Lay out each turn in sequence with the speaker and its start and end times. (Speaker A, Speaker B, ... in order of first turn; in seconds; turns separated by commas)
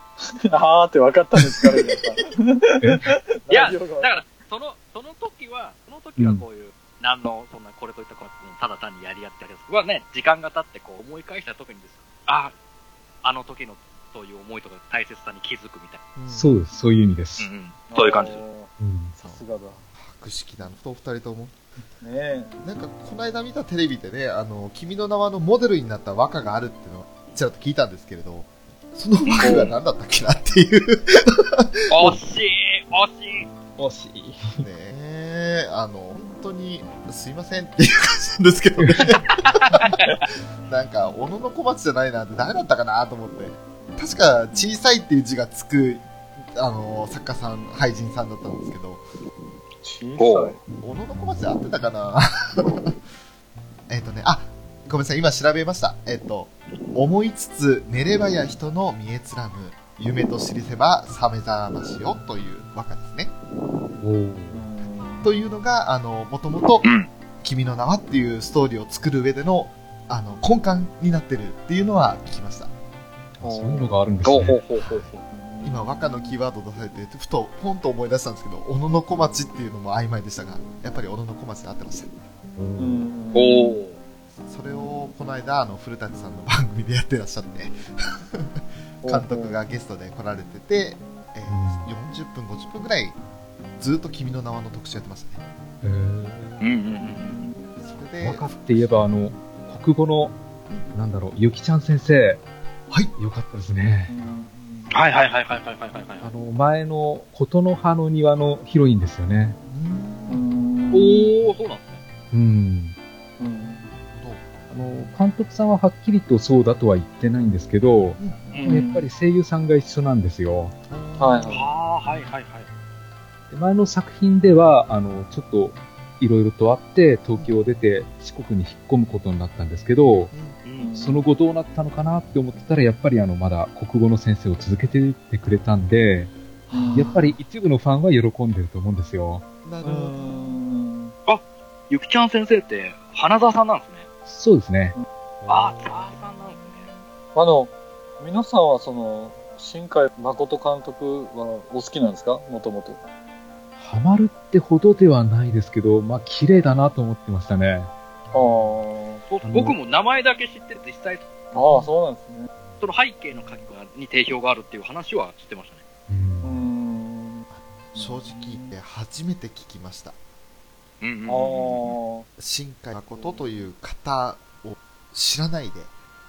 Speaker A: 0.2-4.3, Speaker B: 2.8-3.1, Speaker C: 3.5-12.5, Speaker B: 6.2-6.4, Speaker C: 13.2-16.0, Speaker D: 16.2-16.5, Speaker B: 16.3-17.5, Speaker C: 17.4-18.4, Speaker A: 17.9-19.9, Speaker B: 18.8-19.1, Speaker D: 19.9-21.6, Speaker A: 22.0-22.5, Speaker D: 22.6-32.1, Speaker C: 29.3-29.7, Speaker C: 31.9-33.5, Speaker B: 33.8-34.6, Speaker D: 34.6-39.8, Speaker B: 38.8-39.0, Speaker D: 40.7-49.0, Speaker A: 49.8-50.6, Speaker C: 50.2-50.6, Speaker D: 50.8-53.0, Speaker D: 53.9-63.3, Speaker B: 64.0-64.6, Speaker A: 64.5-65.3, Speaker D: 65.2-66.9, Speaker C: 66.8-67.1, Speaker D: 67.4-72.7, Speaker B: 73.4-74.6, Speaker A: 73.4-74.0, Speaker C: 74.2-75.2, Speaker D: 74.8-82.1, Speaker A: 75.3-76.3, Speaker B: 82.6-83.1, Speaker A: 82.8-83.8, Speaker C: 83.3-84.0, Speaker D: 84.4-93.2, Speaker A: 89.0-89.6, Speaker B: 91.5-91.9, Speaker D: 93.8-95.4, Speaker B: 95.8-96.6, Speaker C: 96.6-97.4, Speaker A: 97.3-97.5, Speaker D: 97.8-99.1, Speaker B: 98.2-100.4, Speaker B: 100.9-102.4, Speaker B: 103.2-104.1, Speaker A: 104.1-104.9, Speaker C: 104.9-106.3, Speaker B: 106.2-109.6, Speaker D: 109.7-110.4, Speaker A: 110.3-111.3, Speaker C: 110.9-112.0, Speaker B: 112.3-113.0, Speaker A: 113.4-113.9, Speaker D: 114.1-114.4, Speaker B: 114.7-120.8, Speaker A: 118.5-119.1, Speaker C: 118.5-118.8, Speaker D: 120.9-121.6, Speaker A: 121.2-121.7, Speaker C: 121.5-122.7, Speaker B: 123.5-130.3, Speaker D: 130.3-130.6, Speaker C: 130.7-130.9, Speaker A: 130.8-131.2, Speaker B: 131.0-136.3, Speaker D: 136.7-137.3, Speaker A: 136.7-137.2, Speaker B: 136.9-139.4, Speaker D: 139.6-140.6, Speaker A: 139.8-141.2, Speaker C: 141.3-144.1, Speaker B: 144.3-145.0, Speaker C: 145.5-146.9, Speaker A: 147.3-153.0, Speaker B: 153.8-157.9, Speaker D: 158.3-158.7, Speaker A: 158.3-159.2, Speaker C: 159.3-161.3, Speaker B: 159.4-159.8, Speaker A: 161.5-162.5, Speaker C: 162.8-165.8, Speaker B: 166.1-166.7, Speaker A: 166.4-168.7, Speaker D: 167.5-170.2, Speaker C: 171.0-172.0, Speaker A: 171.3-172.3, Speaker D: 172.4-175.9, Speaker A: 173.2-173.4